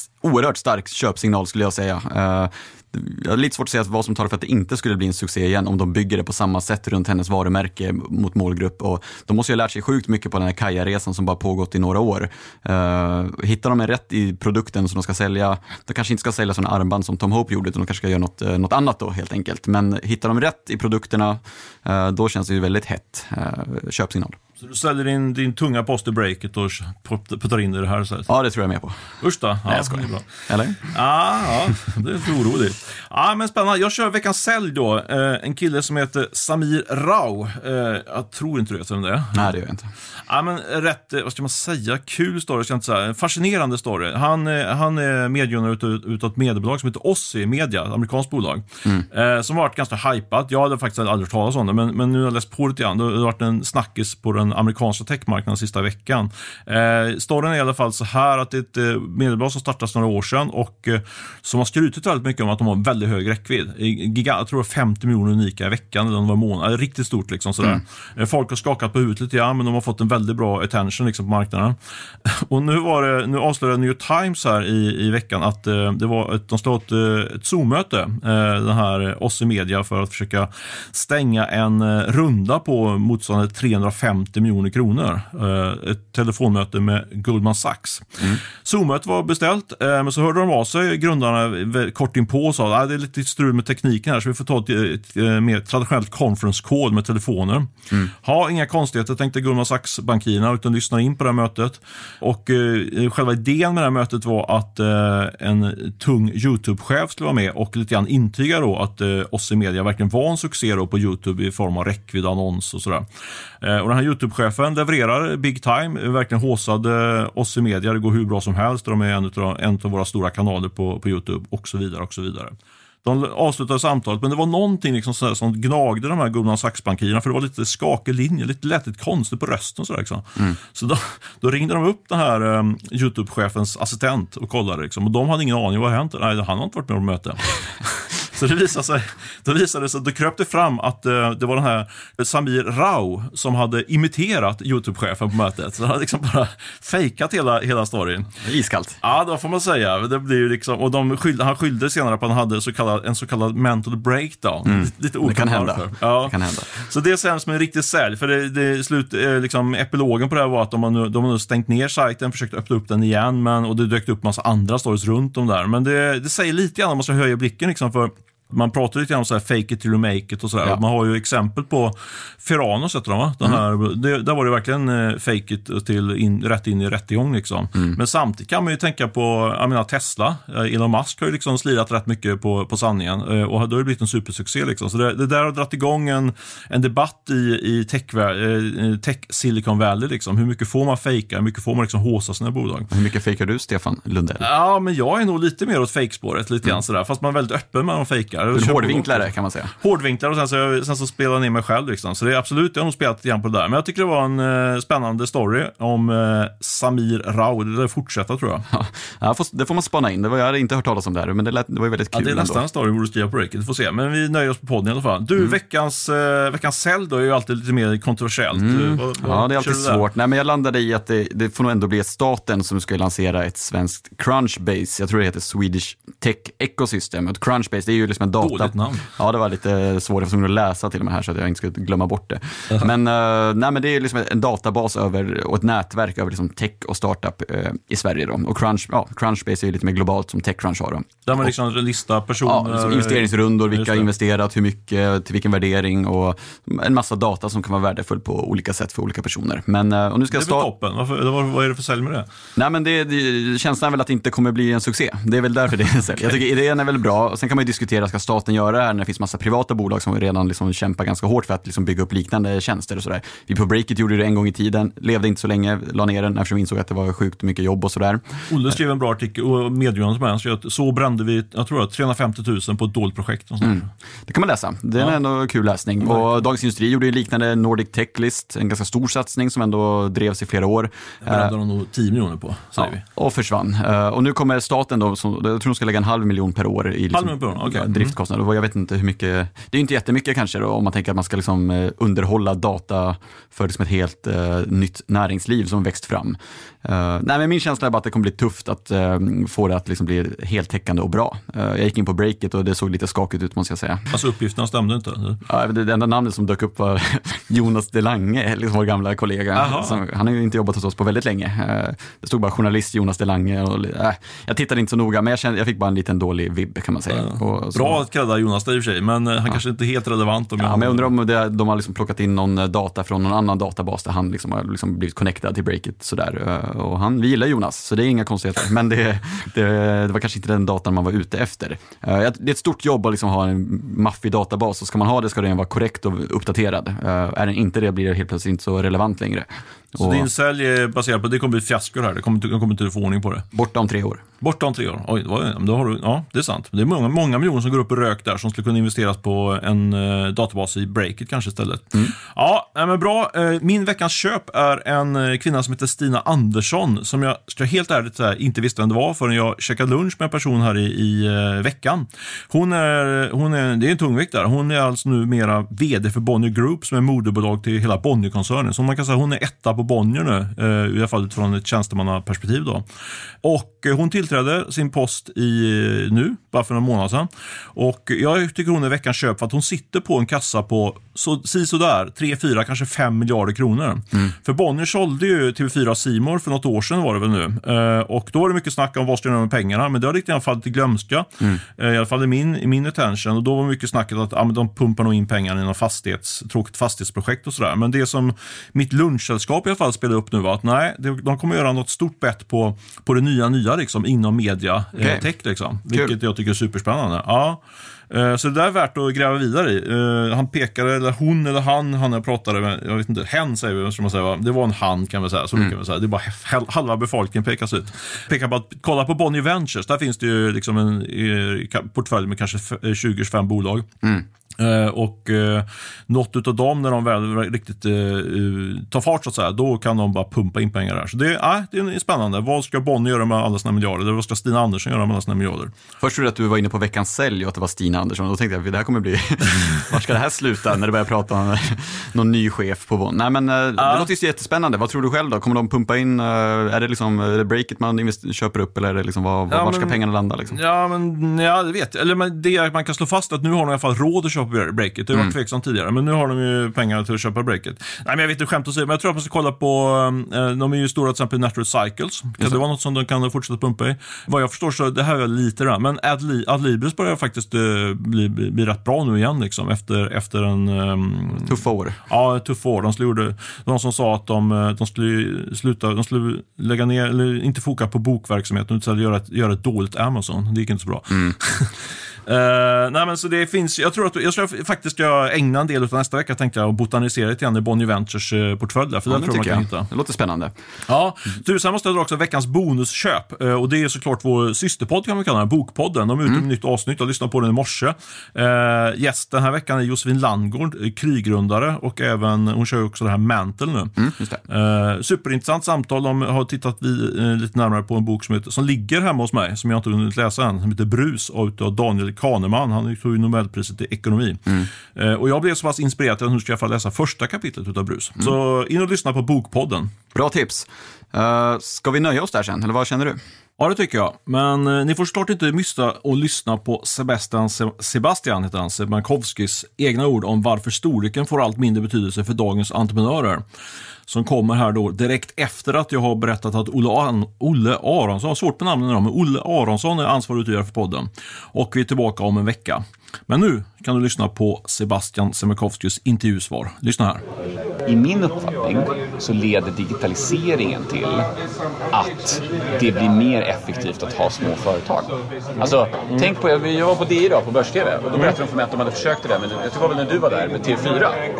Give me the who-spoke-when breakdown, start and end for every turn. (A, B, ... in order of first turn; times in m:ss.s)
0:00.2-0:24.4 A
0:24.6-0:28.3 B
0:28.3-0:29.0 A
0:29.2-0:39.5 B
0:29.7-0:30.8 A
0:39.3-0:39.9 A
0:40.3-1:53.0 B
1:53.6-2:28.3 B
2:28.4-2:29.0 A
2:29.0-3:12.9 B
2:34.6-2:36.7 A
3:12.9-3:14.5 A
3:14.4-3:28.6 B
3:18.5-3:19.7 A
3:28.7-3:32.6 A
3:32.1-3:40.1 B
3:38.5-4:01.1 A
3:48.4-3:49.1 B
4:01.2-4:04.1 B
4:02.4-4:10.7 A
4:10.3-4:12.3 B
4:12.6-4:28.4 A
4:28.5-4:33.9 B
4:33.6-4:41.5 A
4:41.2-4:43.0 B
4:42.8-5:04.1 A
4:47.1-4:48.1 B
5:04.1-5:05.4 B
5:05.4-5:18.0 A
5:09.5-5:10.0 B
5:17.1-5:21.1 B
5:20.6-5:40.2 A
5:40.0-5:43.4 B
5:43.5-5:44.2 A
5:44.4-6:12.8 B
6:13.4-7:04.0 B
6:45.0-6:45.2 A
7:04.6-7:15.7 B
7:16.0-7:30.6 A
7:23.8-7:24.1 B
7:29.5-7:30.0 B
7:30.5-8:09.9 B
7:51.4-7:52.0 A
8:09.1-8:10.5 A
8:10.9-8:24.0 B
8:24.0-8:24.4 A
8:24.5-8:39.9 B
8:40.1-8:43.2 A
8:43.6-8:53.4 B
8:54.1-9:07.2 B
9:07.8-9:11.3 C
9:11.9-9:21.2 C